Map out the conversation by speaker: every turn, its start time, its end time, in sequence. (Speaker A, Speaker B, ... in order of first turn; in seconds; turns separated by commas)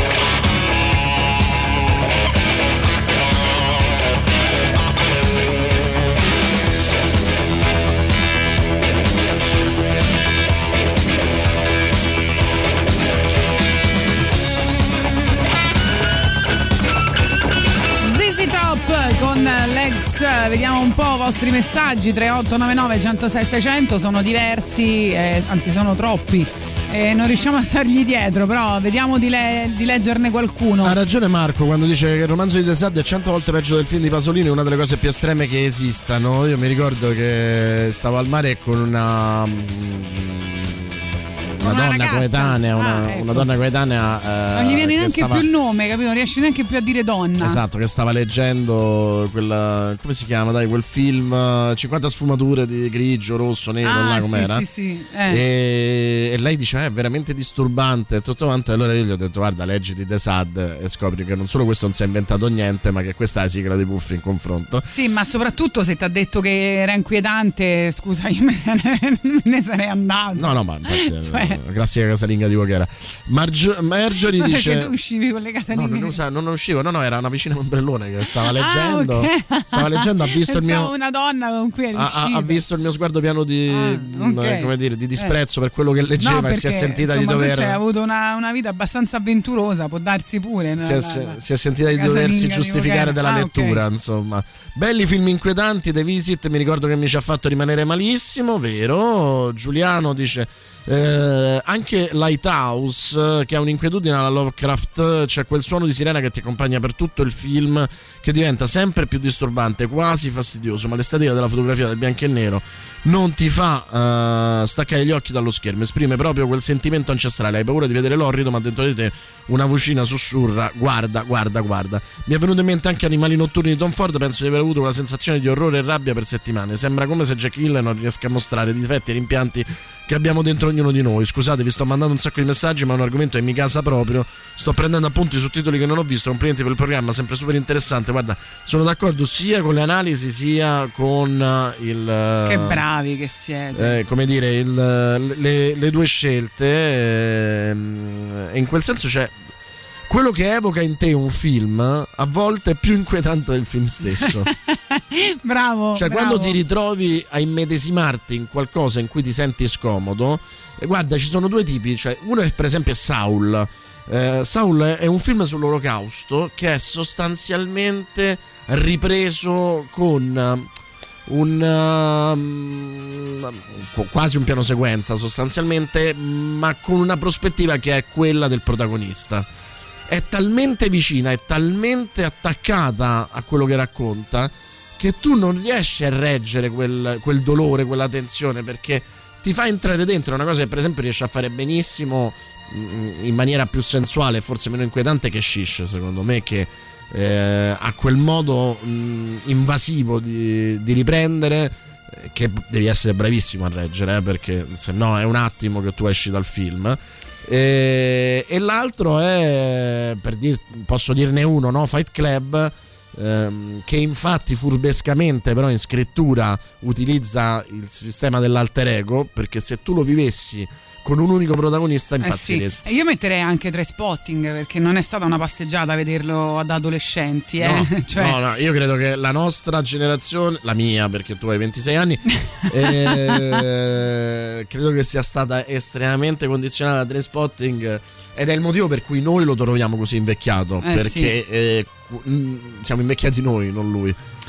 Speaker A: 18.0-31.0, Speaker B: 30.8-45.5, Speaker A: 41.6-43.5, Speaker A: 44.5-47.6, Speaker B: 47.4-54.6, Speaker A: 53.8-55.4, Speaker B: 55.3-64.9, Speaker A: 64.9-71.6, Speaker B: 70.3-74.9, Speaker A: 74.4-76.2, Speaker B: 75.7-80.9, Speaker A: 78.5-82.6, Speaker B: 82.0-87.8, Speaker A: 83.7-85.3, Speaker A: 86.2-91.4, Speaker B: 90.8-142.8, Speaker A: 91.9-93.8, Speaker A: 142.4-144.0, Speaker B: 143.8-149.4, Speaker B: 150.1-154.5, Speaker A: 154.9-156.6, Speaker B: 155.9-170.7, Speaker B: 171.3-179.5, Speaker B: 180.1-222.9, Speaker A: 222.2-228.4, Speaker B: 227.6-244.2, Speaker A: 233.1-233.4, Speaker A: 240.8-241.3